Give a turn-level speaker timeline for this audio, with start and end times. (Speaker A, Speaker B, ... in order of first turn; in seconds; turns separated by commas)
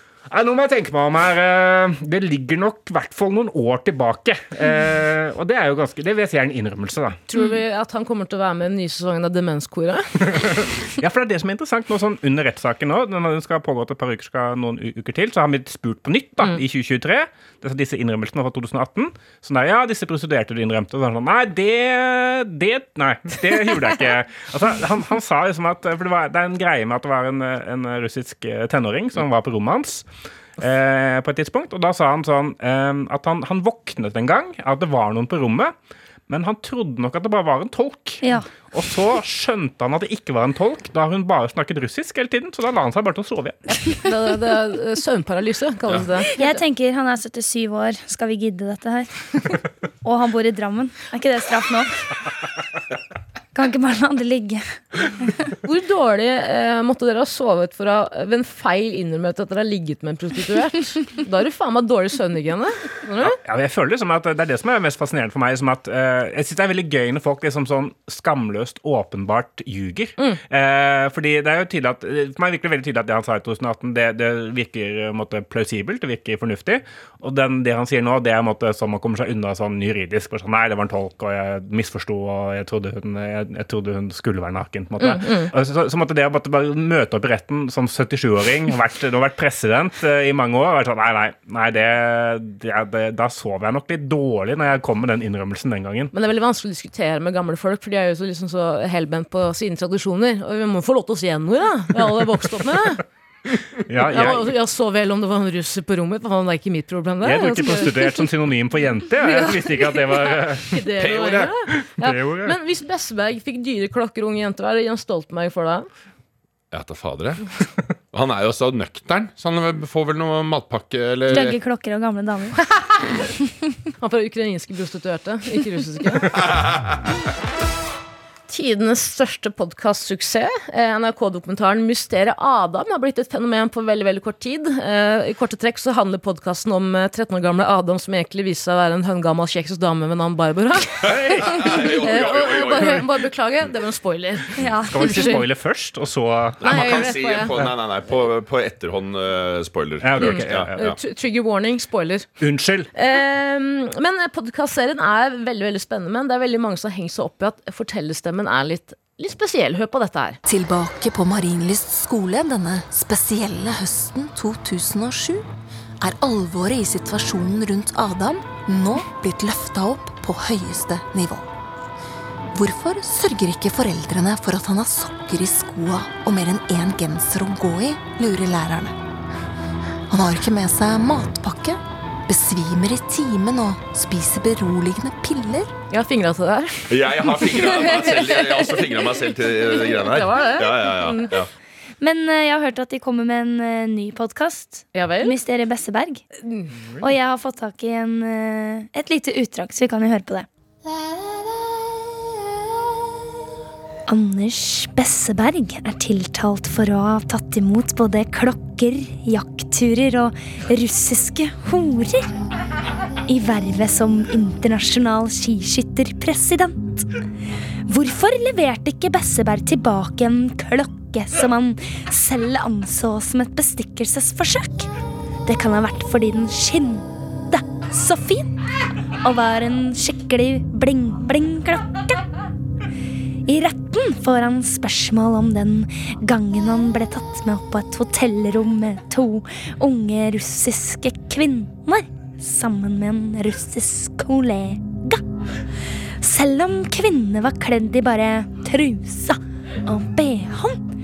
Speaker A: 0.3-7.2, Speaker B: 7.3-10.1, Speaker A: 10.2-30.1, Speaker A: 30.6-35.7, Speaker A: 36.3-44.0, Speaker C: 38.2-38.5, Speaker B: 43.7-46.6, Speaker C: 46.4-49.4, Speaker C: 50.0-52.1, Speaker C: 53.5-55.3, Speaker B: 55.6-63.4, Speaker A: 63.2-96.1, Speaker B: 85.0-85.5, Speaker B: 96.1-103.0, Speaker A: 103.9-104.5, Speaker B: 104.0-108.2, Speaker A: 107.2-110.8, Speaker B: 109.2-115.9, Speaker D: 111.0-111.5, Speaker A: 111.8-112.5, Speaker D: 116.7-121.6, Speaker C: 121.3-122.6, Speaker B: 124.0-126.3, Speaker D: 126.3-127.0, Speaker B: 128.5-145.4, Speaker A: 141.1-141.4, Speaker D: 141.4-143.1, Speaker C: 144.6-145.2, Speaker A: 144.8-146.9, Speaker D: 146.6-150.9, Speaker B: 146.6-147.5, Speaker A: 150.0-150.9, Speaker B: 150.2-152.3, Speaker A: 152.4-152.9, Speaker B: 152.9-160.4, Speaker E: 160.4-165.4, Speaker E: 166.0-171.5, Speaker E: 172.5-178.9, Speaker E: 180.1-185.7, Speaker B: 185.9-188.7, Speaker D: 186.9-191.5, Speaker B: 189.8-191.3, Speaker C: 192.0-196.2, Speaker B: 194.9-195.3, Speaker C: 197.0-200.5, Speaker C: 204.1-212.3, Speaker C: 213.3-217.1, Speaker C: 217.9-224.9, Speaker C: 225.4-228.5, Speaker C: 229.2-232.2, Speaker C: 233.4-245.2, Speaker C: 246.2-250.8